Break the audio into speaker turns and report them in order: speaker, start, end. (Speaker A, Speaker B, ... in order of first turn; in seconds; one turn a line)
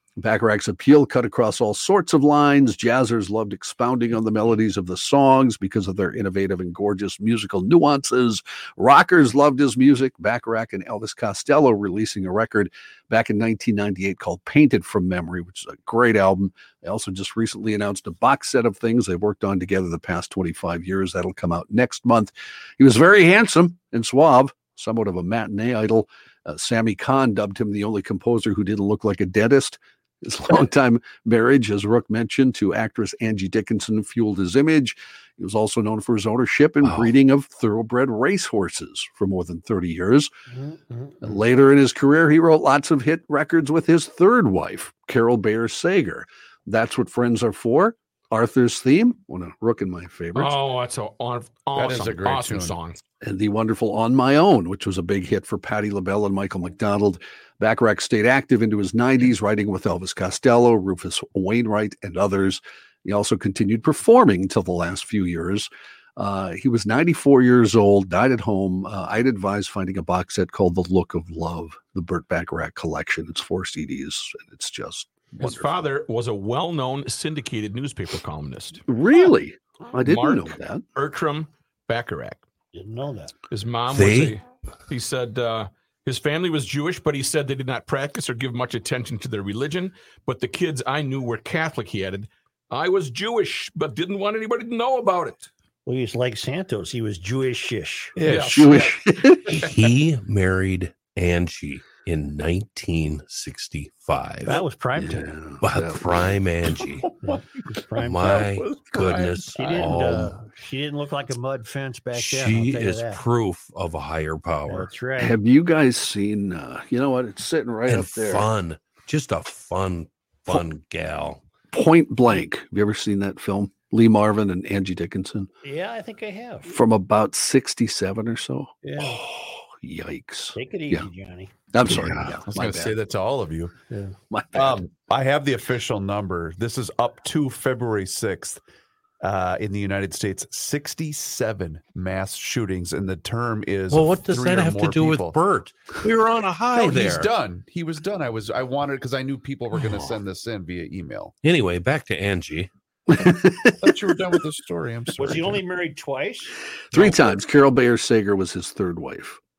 Speaker A: 0.2-40.3
Speaker B: 40.5-41.3
Speaker A: 41.2-50.6
Speaker C: 50.3-53.0
Speaker D: 51.7-52.8
Speaker A: 53.2-75.8
Speaker C: 75.3-78.8
Speaker A: 78.9-80.8
Speaker C: 80.0-82.4
Speaker B: 82.7-83.3
Speaker C: 83.5-95.5
Speaker E: 83.9-84.3
Speaker B: 95.8-98.2
Speaker D: 98.2-98.9
Speaker C: 98.2-99.0
Speaker A: 98.5-99.6
Speaker E: 99.5-104.6
Speaker C: 99.5-99.9
Speaker B: 104.4-105.3
Speaker A: 105.0-106.4
Speaker E: 105.6-107.1
Speaker B: 107.2-108.4
Speaker E: 108.0-110.3
Speaker D: 108.2-109.3
Speaker B: 109.5-113.2
Speaker E: 112.1-114.9
Speaker B: 114.7-115.3
Speaker A: 115.2-118.5
Speaker E: 117.9-121.4
Speaker A: 121.7-125.5
Speaker B: 125.6-126.8
Speaker A: 126.7-131.1
Speaker B: 128.8-129.2
Speaker B: 130.5-131.5
Speaker A: 131.7-133.0
Speaker D: 131.9-133.7
Speaker B: 133.9-134.1
Speaker A: 134.3-134.8
Speaker D: 134.5-138.6
Speaker D: 139.2-145.3
Speaker E: 143.9-147.3
Speaker D: 146.7-151.3
Speaker E: 149.7-150.2
Speaker E: 151.4-152.7
Speaker A: 153.1-154.0
Speaker D: 153.8-155.6
Speaker B: 155.2-156.5
Speaker A: 156.9-159.4